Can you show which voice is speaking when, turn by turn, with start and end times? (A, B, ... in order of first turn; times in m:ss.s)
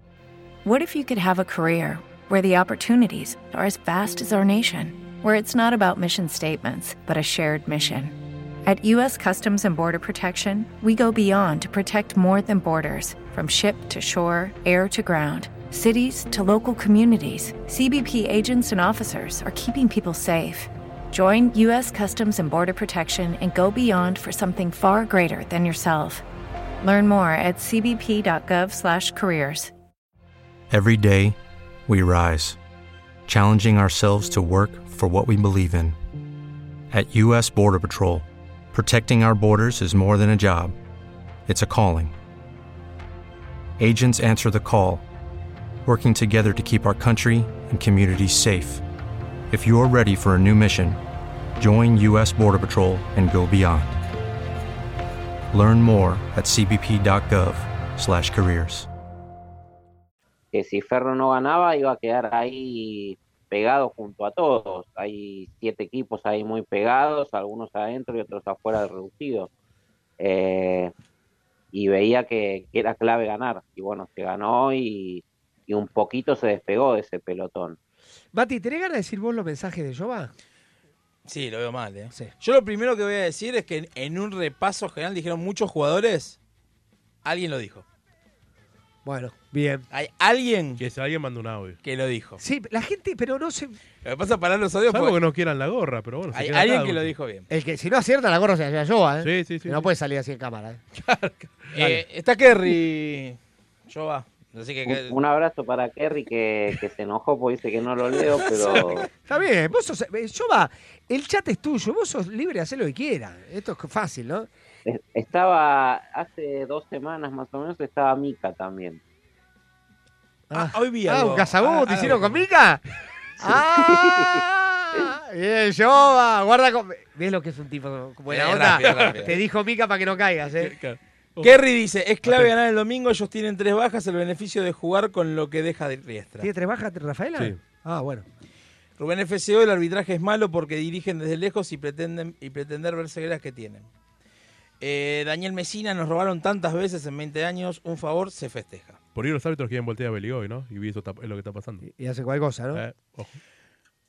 0:00.6-0:26.2 A
0:26.8-0:29.7 A
0:30.7-0:31.4 B
0:31.9-0:32.6 B
0:33.3-0:36.0 B
0:36.9-0:40.8 B
0:41.5-0:42.1 B
0:43.8-0:45.0 B
0:45.9-0:48.8 B
0:49.5-0:51.0 B
0:51.6-0:54.0 B
0:55.5-0:58.9 B
1:00.5-1:09.5 C
1:10.2-1:10.9 C
1:11.7-1:17.8 C
1:18.3-1:20.3 D
1:21.3-1:26.4 E
1:27.2-1:27.8 E
1:29.0-1:29.8 D
1:29.9-1:30.8 E
1:30.8-1:31.8 F
1:31.8-1:32.4 E
1:32.4-1:33.8 D
1:34.0-1:35.2 E
1:34.9-1:37.1 F
1:36.3-1:37.5 E
1:37.5-1:40.8 D
1:39.2-1:39.9 F
1:41.0-1:41.5 F
1:41.7-1:45.2 E
1:44.9-1:49.1 C
1:48.1-1:49.1 E
1:49.3-1:54.5 D
1:54.9-1:59.0 C
2:00.5-2:02.8 D
2:00.5-2:02.4 E
2:03.4-2:10.7 D
2:03.9-2:04.3 C
2:08.3-2:09.3 E
2:08.8-2:09.2 F
2:10.6-2:11.6 F
2:11.4-2:16.5 E
2:16.4-2:18.3 D
2:19.0-2:23.9 E
2:24.8-2:29.0 E
2:29.2-2:31.8 F
2:31.8-2:32.8 D
2:32.7-2:33.3 F